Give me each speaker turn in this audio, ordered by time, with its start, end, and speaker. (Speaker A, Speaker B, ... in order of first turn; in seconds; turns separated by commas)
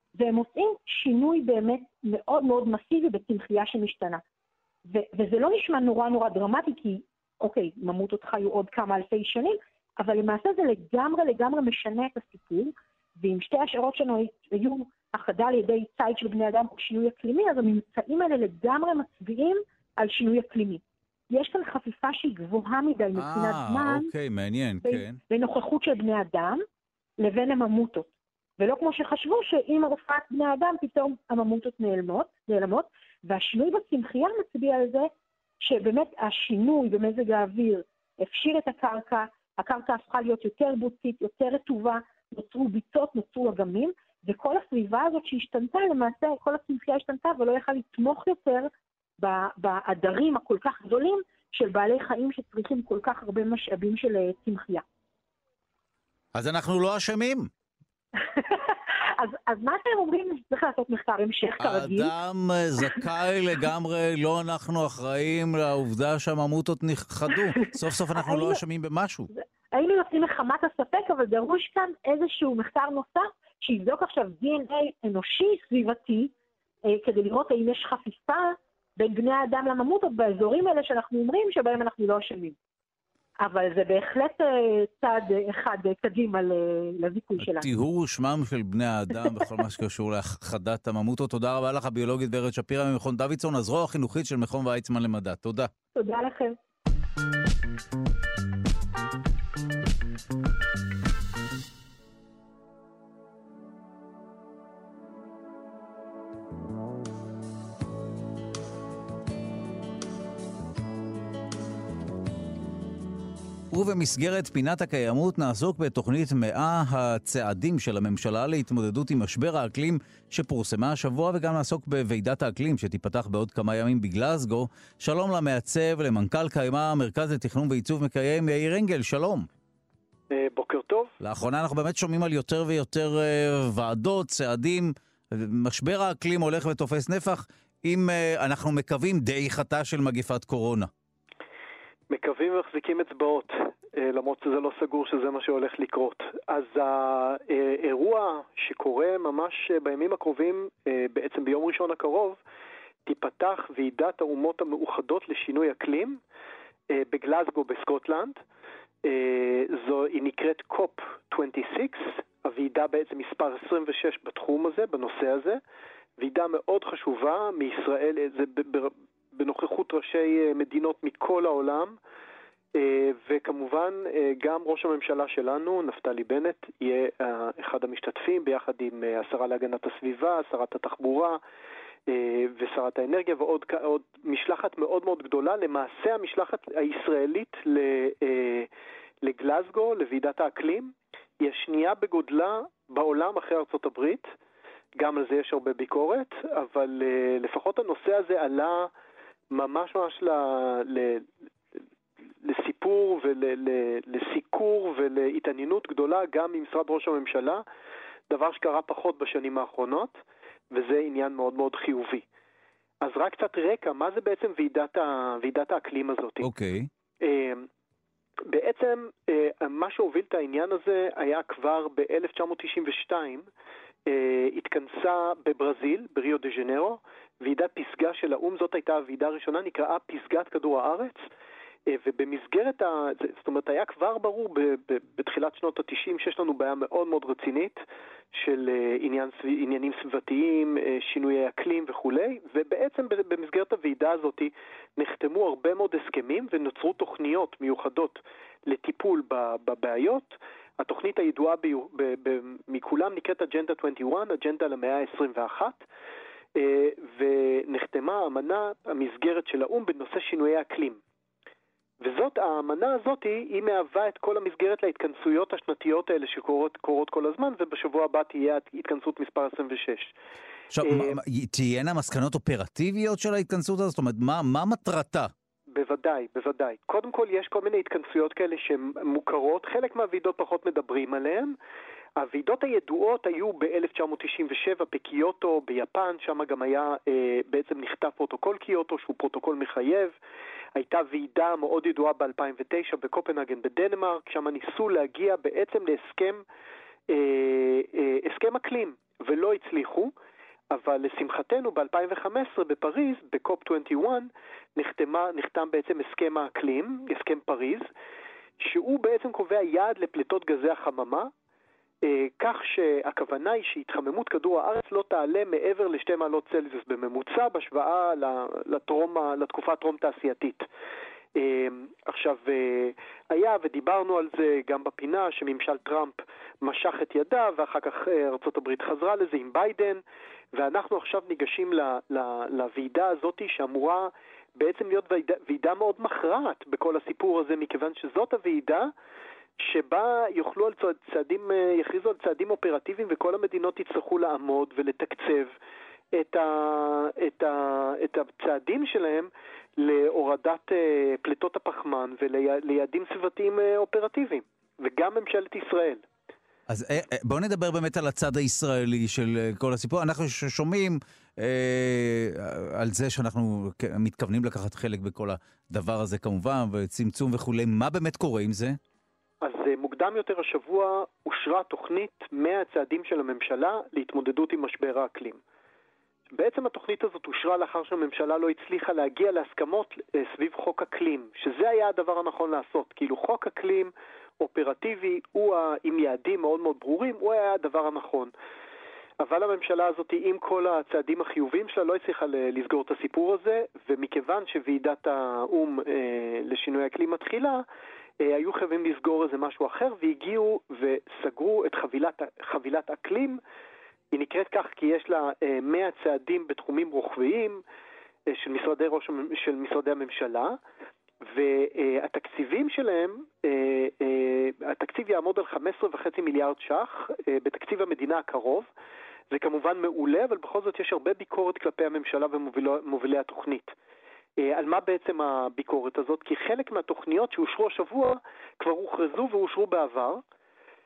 Speaker A: 0.2-4.2, Speaker A: 4.9-24.1, Speaker B: 23.1-25.2, Speaker A: 24.9-26.6, Speaker A: 27.2-35.1, Speaker A: 35.6-54.8, Speaker B: 56.4-57.5, Speaker A: 58.2-62.1, Speaker B: 61.6-69.3, Speaker A: 67.3-68.6, Speaker A: 69.3-76.3, Speaker A: 76.9-82.6, Speaker A: 83.4-87.7, Speaker B: 87.4-95.7, Speaker A: 96.0-96.6, Speaker B: 113.7-129.5, Speaker C: 130.3-131.1, Speaker B: 131.2-140.9, Speaker C: 142.1-152.4, Speaker C: 153.1-156.2, Speaker C: 156.9-158.4, Speaker C: 159.0-165.6, Speaker C: 166.2-172.0, Speaker C: 172.7-181.4, Speaker C: 182.1-188.7, Speaker C: 189.2-194.3, Speaker C: 195.0-198.9, Speaker C: 199.5-201.3, Speaker C: 202.4-207.6, Speaker C: 208.3-210.2, Speaker C: 210.7-212.2, Speaker C: 213.0-216.5, Speaker B: 216.4-216.9, Speaker C: 217.2-217.7, Speaker C: 218.5-223.5, Speaker C: 224.1-231.2, Speaker C: 231.9-237.8, Speaker C: 238.3-255.8, Speaker C: 256.6-261.0, Speaker C: 262.0-270.1, Speaker B: 270.7-275.3, Speaker C: 270.8-271.2, Speaker C: 275.7-281.6, Speaker C: 282.2-290.2, Speaker C: 290.8-296.4, Speaker C: 297.1-300.1, Speaker C: 300.7-307.9, Speaker C: 308.6-311.3, Speaker C: 312.0-320.7, Speaker C: 321.4-330.0, Speaker C: 330.5-338.9, Speaker C: 339.6-345.5, Speaker C: 346.1-356.0, Speaker B: 356.7-368.8, Speaker C: 369.4-375.4, Speaker C: 376.3-388.3, Speaker C: 389.2-397.6, Speaker C: 398.2-403.4, Speaker C: 404.1-407.6, Speaker C: 408.3-410.6, Speaker C: 411.2-418.7, Speaker C: 419.3-423.7, Speaker C: 424.4-430.2